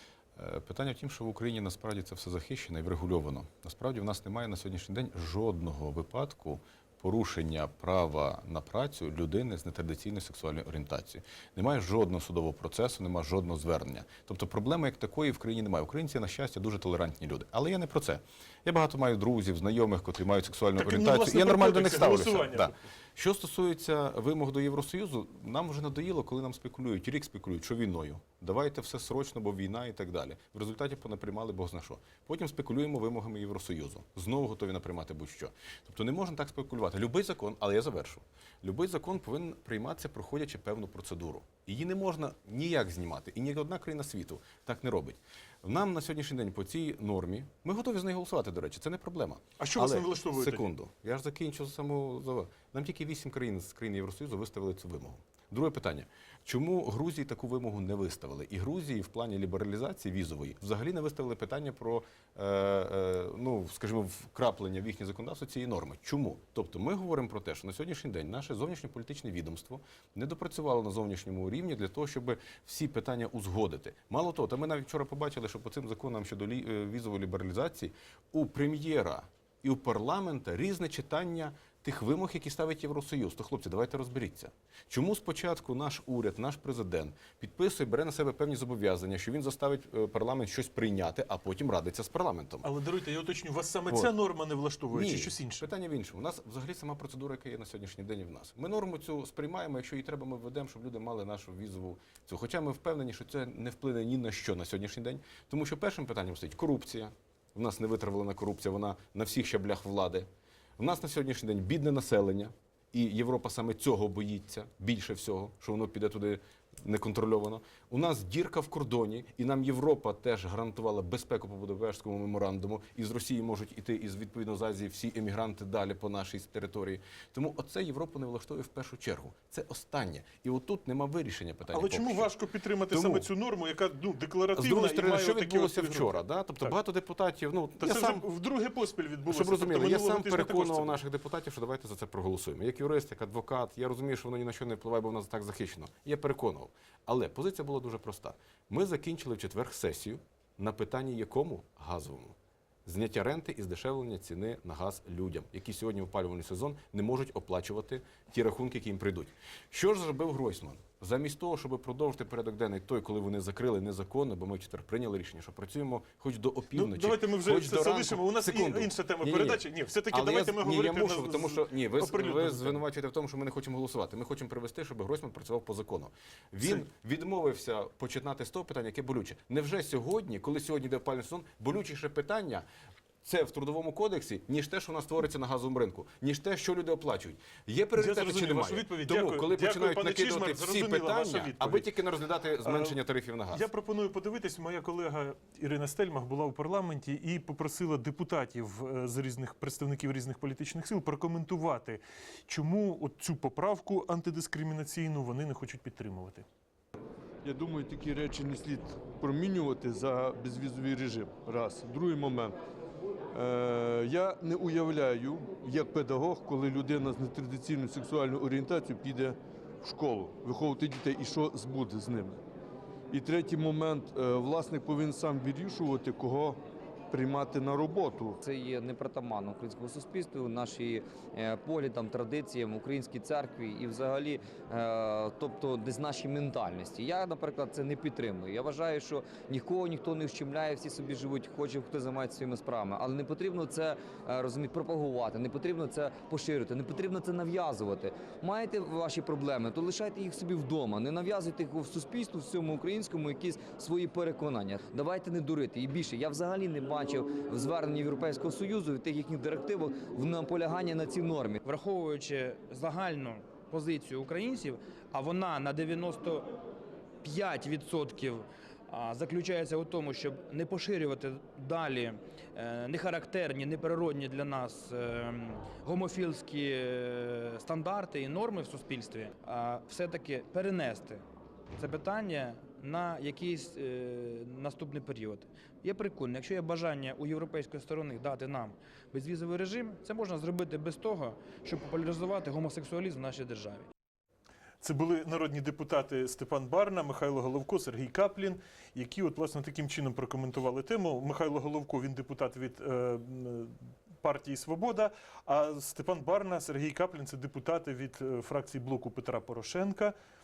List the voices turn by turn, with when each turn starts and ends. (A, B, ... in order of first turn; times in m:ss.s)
0:00.4-1:32.7 A
0:20.7-0:22.7 B
0:49.6-0:50.7 B
1:32.6-1:35.7 B
1:33.9-1:34.2 A
1:34.9-2:12.3 A
2:11.7-2:16.8 B
2:12.9-2:13.2 A
2:14.5-2:18.2 A
2:17.8-2:21.0 B
2:19.2-3:02.6 A
2:46.7-2:52.8 B
3:03.2-3:13.7 A
3:08.0-3:11.9 B
3:12.6-3:26.4 B
3:27.4-3:32.6 C
3:33.3-3:42.4 C
3:43.1-3:46.6 C
3:47.1-3:48.4 C
3:48.4-4:21.6 D
4:21.7-4:26.5 E
4:27.2-4:41.2 E
4:41.8-4:53.9 E
4:54.8-5:10.1 B